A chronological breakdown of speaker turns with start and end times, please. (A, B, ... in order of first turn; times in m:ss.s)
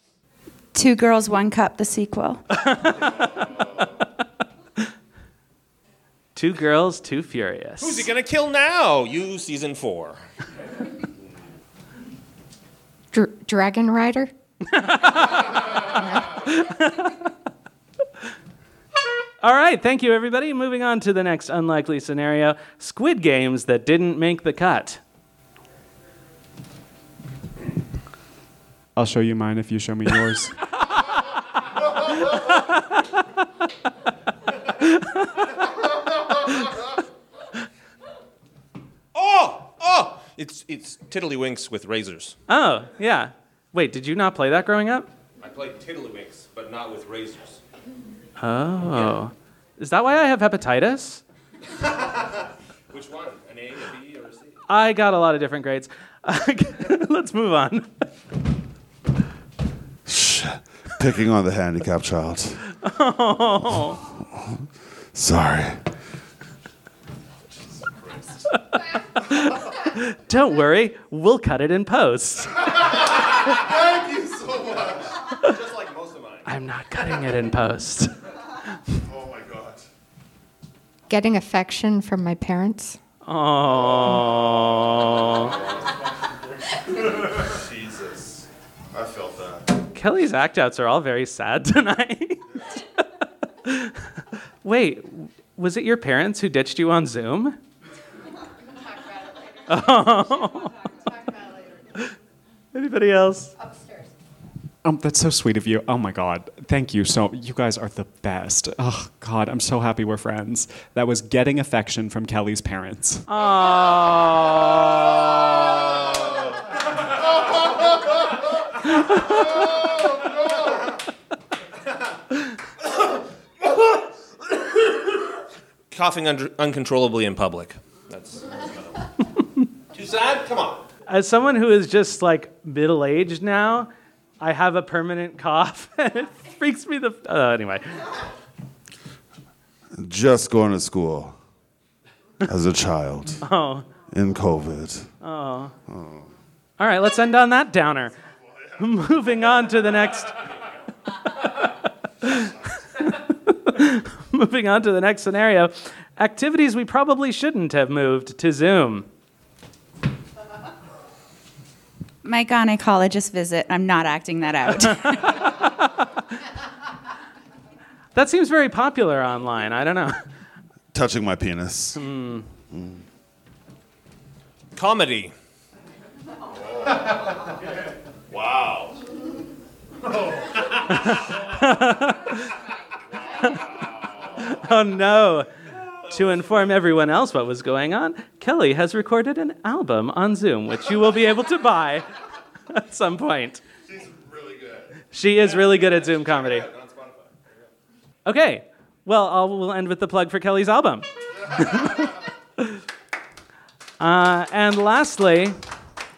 0:00.7-0:02.4 A
0:02.6-0:03.3 B
0:06.3-0:08.1 B
0:07.8-0:10.2 C
0:13.1-0:14.3 D
0:14.6-0:17.3 B
0:19.4-0:25.0 B
0:29.0-0:30.5 E
0:32.3-0:33.0 B
0:34.8-0:35.2 B
0:39.1-0:42.4 C
0:42.5-0:45.1 B
0:45.4-0:47.6 C
0:48.4-0:51.2 B
0:51.9-0:52.4 C
0:52.9-0:54.6 C
0:54.7-0:57.9 B
1:00.0-1:02.6 F
1:02.8-1:04.0 B
1:04.3-1:04.6 F
1:05.1-1:05.8 F
1:07.8-1:08.2 F
1:08.7-1:12.8 B
1:13.4-1:15.1 F
1:15.0-1:16.5 C
1:16.4-1:18.1 B
1:19.0-1:19.8 F
1:21.1-1:23.0 D
1:23.2-1:25.6 B
1:23.8-1:24.8 F
1:27.0-1:29.7 F
1:29.9-1:32.8 B
1:33.6-1:37.6 B
1:39.7-1:40.8 B
1:42.7-1:43.5 B
1:43.6-1:44.1 D
1:44.8-1:53.2 E
1:53.3-1:55.7 B
2:05.9-2:09.1 C
2:09.9-2:10.8 C
2:11.1-2:13.9 B
2:14.4-2:18.1 B
2:19.9-2:21.4 F
2:22.4-2:23.4 F
2:23.4-2:23.8 B
2:24.1-2:25.1 F
2:25.2-2:25.7 B
2:25.9-2:26.2 F
2:26.8-2:28.1 B
2:28.8-2:30.4 B
2:32.2-2:39.0 B
2:42.2-2:45.5 A
2:45.0-2:45.7 B
2:48.1-2:50.2 B
2:50.9-2:52.0 F
2:52.0-2:52.5 B
2:52.7-2:53.0 F
2:54.8-2:55.3 C
2:58.5-2:58.8 F
3:00.8-3:02.6 B
3:03.4-3:05.5 B
3:06.1-3:12.1 B
3:12.7-3:13.6 B
3:13.9-3:14.9 F
3:15.1-3:16.7 B
3:15.5-3:17.3 C
3:18.2-3:22.8 B
3:24.0-3:25.5 B